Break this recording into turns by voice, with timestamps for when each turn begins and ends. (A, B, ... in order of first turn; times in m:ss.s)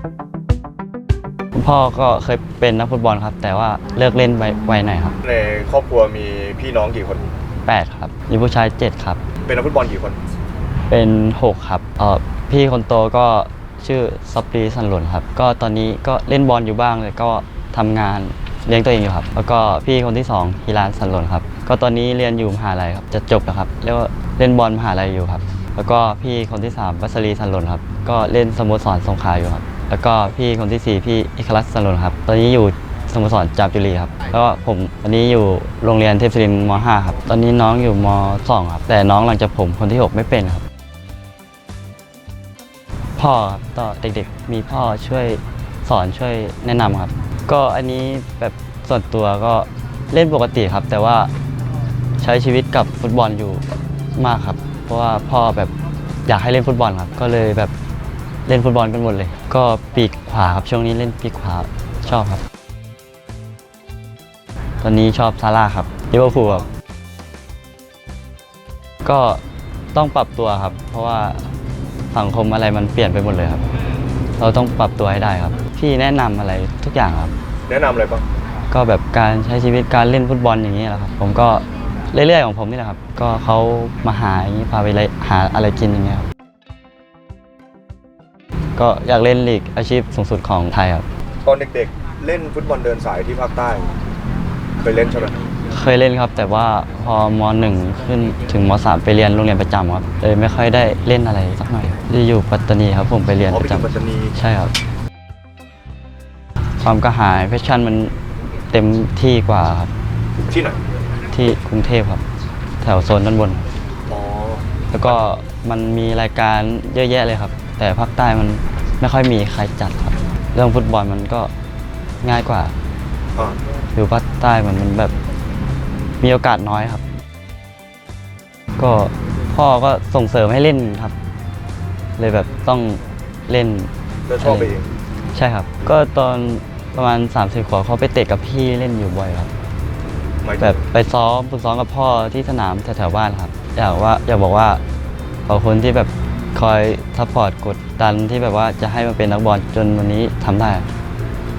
0:01.6-0:05.2 A
0:05.2-0:07.3 B
0:07.7-0:09.2 A
0:09.5-0:10.2 B
0:10.9-0:40.6 A
0:43.2-0:51.3 A
0:52.2-0:53.6 A
0:54.2-0:55.7 A
0:56.3-0:57.7 A
0:58.5-1:02.4 A
1:04.8-1:06.7 A
1:09.0-1:09.4 A
1:09.9-1:11.5 A
1:12.1-1:13.6 A
1:14.4-1:17.3 A
1:17.7-1:18.2 B
1:18.7-1:26.3 A
1:28.8-1:31.0 A
1:31.4-1:33.9 B
1:34.8-1:35.4 B
1:35.7-1:44.7 A
1:43.5-1:44.3 B
1:46.8-1:48.1 A
1:48.7-1:49.9 A
1:50.5-1:50.8 B
1:51.3-1:52.2 A
1:52.8-1:53.7 A
1:54.1-1:54.6 B
1:54.9-2:01.5 A
2:02.2-2:02.7 A
2:04.0-2:05.1 A
2:06.2-2:07.0 A
2:08.8-2:11.1 A
2:12.2-2:13.9 A
2:14.3-2:14.9 B
2:14.4-2:14.8 A
2:15.3-2:19.5 A
2:20.4-2:20.8 B
2:20.6-2:24.8 A
2:25.5-2:30.8 A